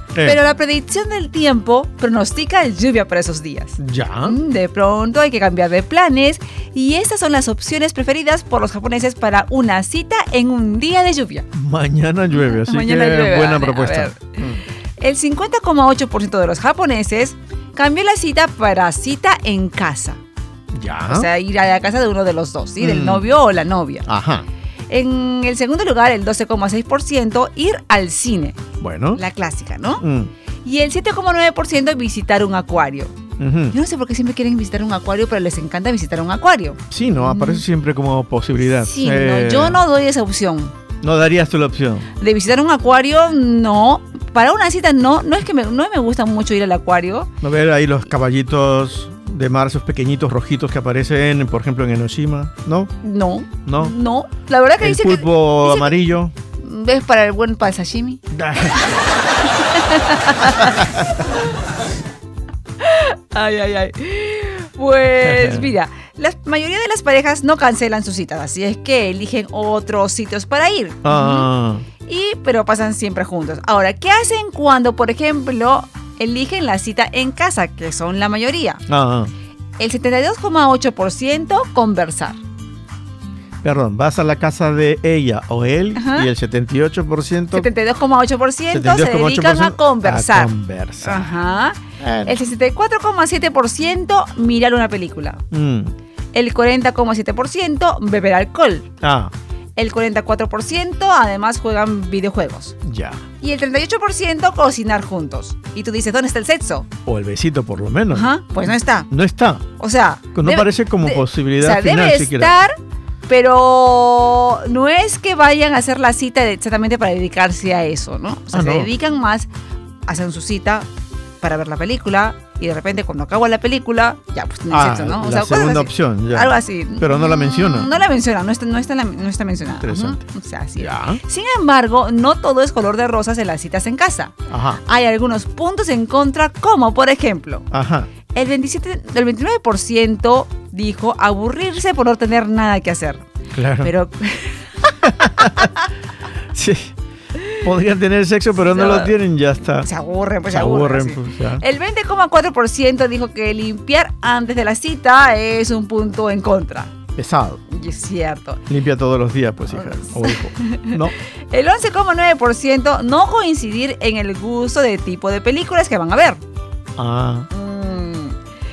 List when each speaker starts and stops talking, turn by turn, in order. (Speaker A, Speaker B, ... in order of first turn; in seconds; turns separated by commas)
Speaker A: 0.1-0.4, Speaker B: 0.2-11.4, Speaker A: 3.8-4.4, Speaker A: 11.5-14.6, Speaker B: 12.3-14.3, Speaker B: 15.0-20.2, Speaker A: 20.7-21.3, Speaker B: 21.1-24.1, Speaker A: 22.8-23.2, Speaker A: 24.1-24.4, Speaker B: 24.9-28.6, Speaker A: 28.8-29.2, Speaker B: 29.1-30.0, Speaker A: 30.0-30.3, Speaker B: 30.6-33.1, Speaker A: 33.4-33.8, Speaker B: 33.7-37.6, Speaker A: 36.9-39.8, Speaker B: 38.8-40.7, Speaker A: 41.0-42.1, Speaker B: 42.2-47.3, Speaker A: 47.4-52.9, Speaker B: 53.0-56.0, Speaker A: 53.6-53.9, Speaker A: 54.8-56.3, Speaker B: 56.6-58.2, Speaker A: 58.3-58.9, Speaker B: 58.8-60.9, Speaker A: 60.6-61.1, Speaker B: 62.8-71.5, Speaker A: 65.1-65.7, Speaker A: 71.0-71.8, Speaker B: 72.0-78.8, Speaker A: 78.9-79.3, Speaker B: 79.8-82.4, Speaker A: 83.6-87.7, Speaker B: 85.9-86.3, Speaker B: 87.5-90.5, Speaker A: 88.7-91.4, Speaker B: 91.0-95.4, Speaker A: 92.0-92.4, Speaker A: 95.5-95.9, Speaker B: 96.3-98.9, Speaker A: 99.0-99.3, Speaker B: 99.8-102.8, Speaker A: 102.8-103.2, Speaker B: 103.4-106.9, Speaker A: 107.0-108.3, Speaker B: 108.1-109.1, Speaker A: 109.1-109.6, Speaker B: 109.8-112.7, Speaker A: 110.3-112.5, Speaker B: 113.3-119.5, Speaker A: 118.5-118.9, Speaker B: 120.1-120.8, Speaker B: 121.4-137.7, Speaker A: 124.7-127.9, Speaker A: 129.8-130.2, Speaker A: 130.8-131.2, Speaker A: 134.5-134.8, Speaker A: 137.7-138.1, Speaker B: 138.3-143.2, Speaker A: 143.5-143.9, Speaker B: 143.8-145.7, Speaker A: 145.0-145.7, Speaker A: 146.5-146.9, Speaker A: 147.5-149.9, Speaker B: 148.6-149.1, Speaker B: 149.8-156.9, Speaker A: 150.5-151.6, Speaker A: 157.2-157.6, Speaker B: 157.7-158.6, Speaker A: 158.7-161.1, Speaker B: 159.7-166.4, Speaker A: 167.0-167.5, Speaker B: 167.5-168.4